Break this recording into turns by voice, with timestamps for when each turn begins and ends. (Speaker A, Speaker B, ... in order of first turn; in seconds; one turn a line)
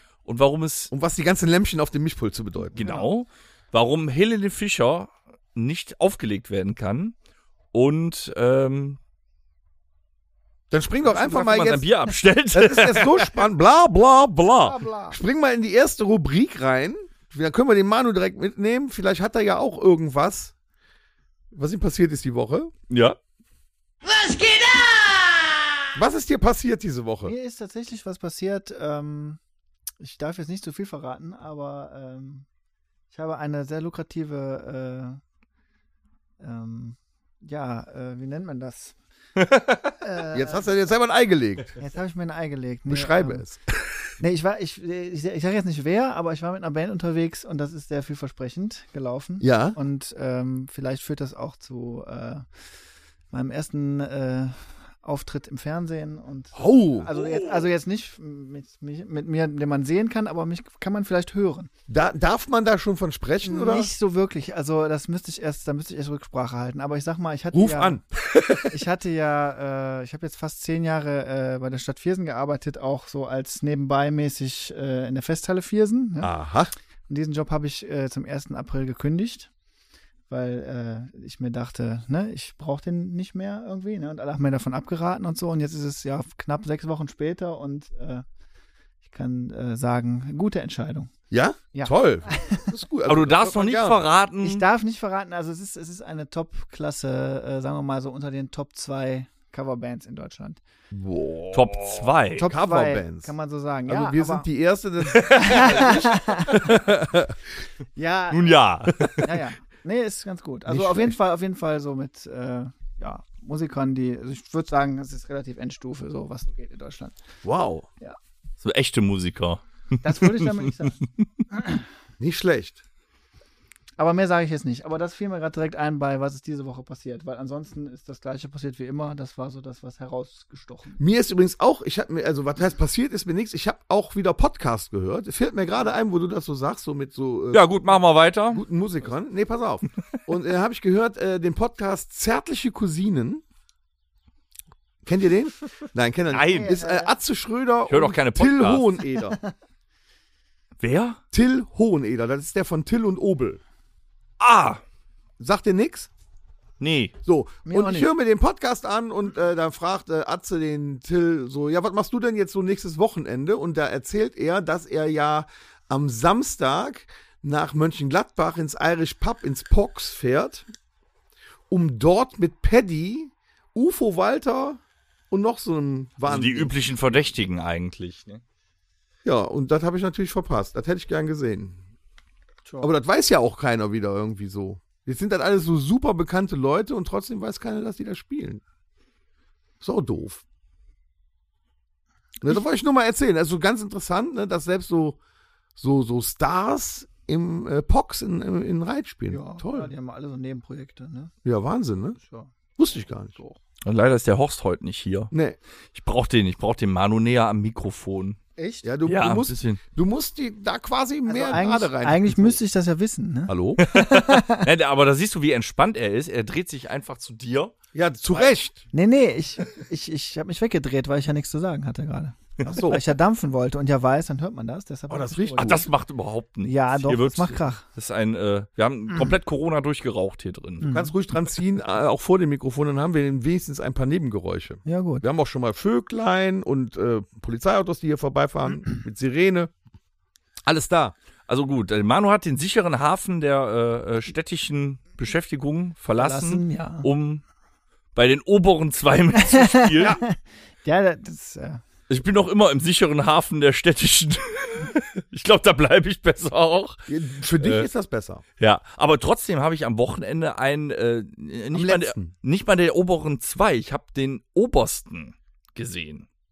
Speaker A: 0.2-0.9
Speaker B: 0.9-3.0
Speaker A: 2.7-7.1
Speaker A: 7.7-9.0
Speaker B: 10.7-11.9
Speaker A: 11.0-13.4
Speaker B: 12.5-20.5
Speaker C: 14.6-15.2
Speaker B: 21.5-22.7
Speaker A: 22.9-23.2
Speaker C: 24.1-25.3
Speaker B: 25.9-27.3
Speaker C: 27.2-29.4
Speaker C: 30.0-32.5
Speaker C: 33.1-35.2
Speaker C: 36.4-38.9
Speaker C: 40.0-40.7
Speaker B: 40.3-41.8
Speaker C: 41.8-43.4
Speaker B: 42.9-43.6
Speaker C: 44.2-52.5
Speaker B: 49.4-49.8
Speaker C: 53.3-61.7
Speaker B: 56.5-57.1
Speaker B: 61.9-63.9
Speaker C: 63.4-68.0
Speaker B: 67.5-68.0
Speaker C: 68.6-76.3
Speaker B: 76.2-76.7
Speaker C: 77.1-79.5
Speaker C: 80.3-88.2
Speaker C: 89.1-91.1
Speaker B: 91.3-94.0
Speaker C: 91.7-92.7
Speaker A: 93.1-94.7
Speaker C: 94.4-100.6
Speaker B: 100.9-103.3
Speaker A: 101.5-102.5
Speaker C: 102.4-104.5
Speaker B: 103.9-107.3
Speaker A: 105.1-105.8
Speaker C: 105.4-106.6
Speaker C: 108.0-108.6
Speaker A: 108.3-109.3
Speaker C: 109.2-117.2
Speaker B: 110.7-111.1
Speaker B: 117.4-117.9
Speaker A: 118.6-121.2
Speaker C: 120.0-121.0
Speaker C: 121.5-121.8
Speaker B: 122.2-122.8
Speaker C: 124.0-131.0
Speaker B: 131.0-137.9
Speaker A: 137.5-138.6
Speaker B: 138.5-143.4
Speaker B: 145.0-149.4
Speaker A: 146.3-146.8
Speaker C: 146.5-147.1
Speaker A: 147.9-148.9
Speaker A: 150.8-151.2
Speaker B: 151.3-153.6
Speaker A: 154.4-154.8
Speaker B: 155.4-156.1
Speaker A: 156.8-157.1
Speaker B: 157.2-170.7
Speaker C: 157.7-158.1
Speaker B: 171.7-176.8
Speaker A: 176.2-178.4
Speaker B: 179.2-181.8
Speaker C: 182.7-182.9
Speaker B: 182.8-188.6
Speaker B: 189.8-190.4
Speaker B: 192.4-195.2
Speaker B: 195.8-199.9
Speaker C: 199.3-201.3
Speaker B: 201.4-202.2
Speaker C: 202.2-202.5
Speaker B: 202.8-203.4
Speaker A: 203.8-205.3
Speaker B: 205.3-205.6
Speaker A: 205.9-208.4
Speaker C: 208.6-208.9
Speaker B: 208.8-212.6
Speaker A: 209.1-209.8
Speaker C: 211.3-214.7
Speaker B: 213.5-213.8
Speaker A: 213.8-217.7
Speaker B: 217.9-218.8
Speaker C: 218.9-225.8
Speaker B: 222.7-223.0
Speaker B: 225.1-225.8
Speaker A: 225.6-230.8
Speaker C: 226.6-227.8
Speaker C: 230.8-231.1
Speaker B: 230.9-239.7
Speaker C: 234.8-235.2
Speaker B: 240.6-241.2
Speaker A: 241.5-247.4
Speaker C: 246.2-247.1
Speaker A: 248.2-250.2
Speaker C: 249.4-251.8
Speaker A: 252.1-257.9
Speaker B: 257.1-258.4
Speaker A: 258.6-266.2
Speaker B: 261.7-262.3